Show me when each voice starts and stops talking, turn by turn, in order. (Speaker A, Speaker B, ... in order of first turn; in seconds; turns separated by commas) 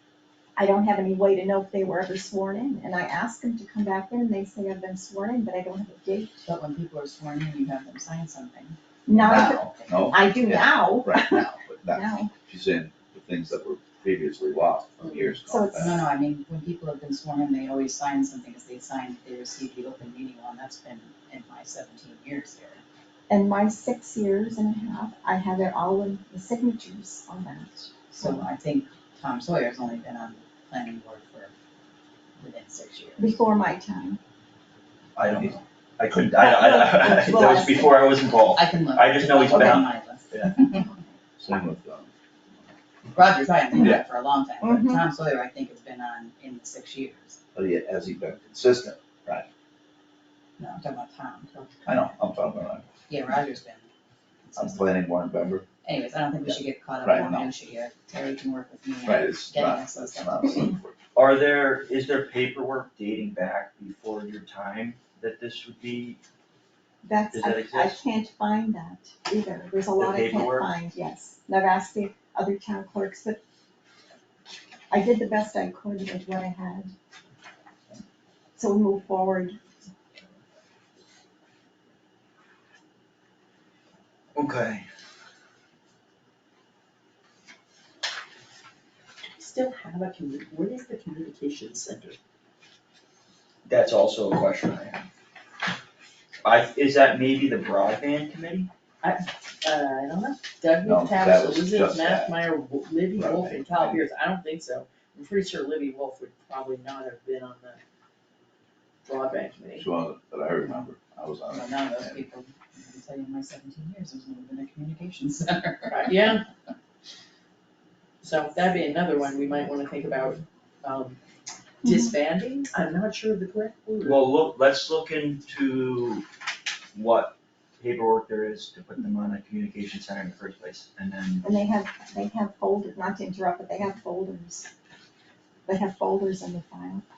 Speaker A: 0.6-6.4, Speaker B: 6.4-10.1, Speaker A: 9.1-12.3, Speaker C: 9.1-16.0, Speaker D: 15.0-15.3, Speaker A: 15.4-16.0, Speaker B: 15.7-22.8, Speaker A: 23.3-28.4, Speaker B: 28.1-31.5, Speaker B: 32.4-33.4, Speaker A: 33.2-34.2, Speaker E: 35.2-39.9, Speaker C: 35.2-35.5, Speaker A: 36.4-38.0, Speaker B: 38.5-40.9, Speaker C: 41.4-42.1, Speaker B: 43.1-47.4, Speaker C: 43.8-44.0, Speaker A: 44.6-45.0, Speaker C: 47.5-49.5, Speaker B: 50.6-51.5, Speaker C: 51.9-52.9, Speaker B: 53.1-53.9, Speaker B: 54.4-55.0, Speaker C: 54.5-55.6, Speaker B: 55.8-60.7, Speaker C: 56.4-57.5, Speaker C: 59.0-61.0, Speaker E: 61.1-66.2, Speaker A: 67.0-73.4, Speaker E: 67.3-68.0, Speaker E: 70.0-70.7, Speaker A: 74.9-76.9, Speaker A: 78.5-79.6, Speaker E: 84.3-84.9, Speaker D: 89.3-92.2, Speaker E: 93.7-95.1, Speaker E: 96.4-98.7, Speaker D: 99.0-107.8, Speaker C: 100.8-102.4, Speaker C: 103.1-104.0, Speaker D: 109.0-109.8, Speaker C: 109.8-112.2, Speaker B: 111.5-116.4, Speaker D: 115.9-116.5, Speaker D: 118.2-121.2, Speaker D: 121.8-124.2, Speaker E: 124.0-126.2, Speaker E: 126.9-131.4, Speaker A: 131.4-134.7, Speaker A: 135.7-137.0